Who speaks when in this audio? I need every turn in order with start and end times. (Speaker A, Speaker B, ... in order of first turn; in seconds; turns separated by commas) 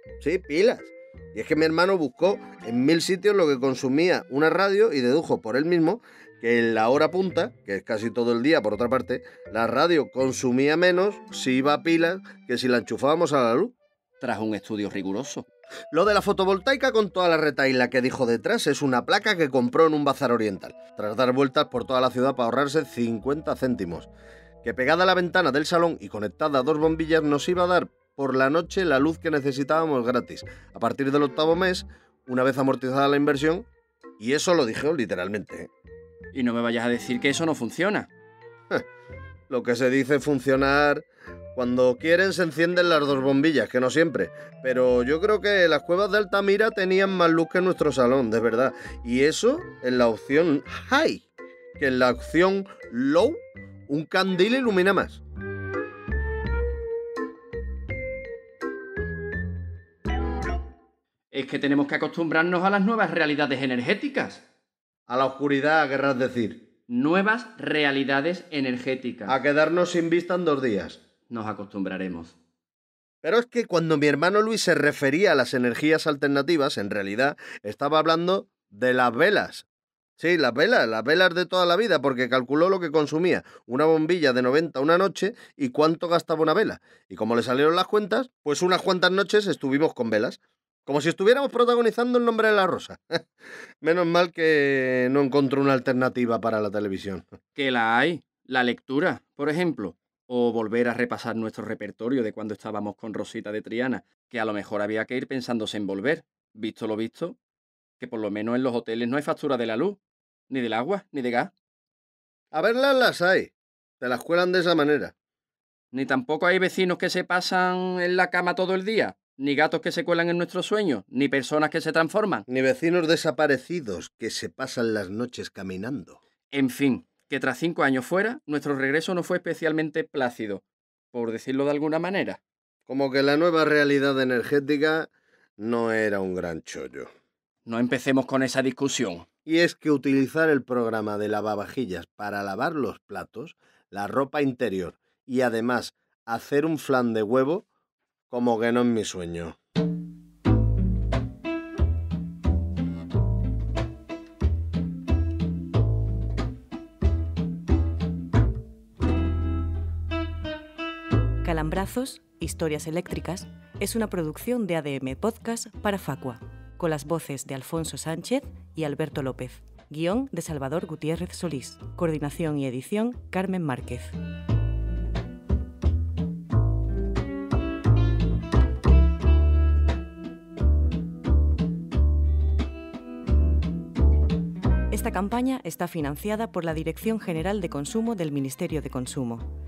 Speaker A: 0.2-13.7, Speaker B: 14.2-15.5, Speaker A: 15.9-24.1, Speaker A: 24.6-33.7, Speaker A: 34.2-35.7, Speaker B: 36.3-38.1, Speaker A: 39.5-51.3, Speaker A: 51.8-55.2, Speaker B: 61.3-64.4, Speaker A: 65.1-66.6, Speaker B: 66.9-69.4, Speaker A: 69.3-71.0, Speaker B: 71.3-72.3, Speaker A: 73.2-79.7, Speaker A: 80.2-93.2, Speaker A: 93.8-97.3, Speaker B: 97.6-107.4, Speaker B: 108.0-110.0, Speaker B: 110.5-111.5, Speaker A: 112.5-115.1, Speaker B: 115.9-122.5, Speaker A: 122.5-126.2, Speaker B: 126.5-132.4, Speaker A: 132.9-137.1, Speaker B: 137.7-139.3, Speaker A: 139.5-147.7, Speaker A: 148.3-149.6, Speaker C: 161.4-174.2, Speaker C: 184.9-189.5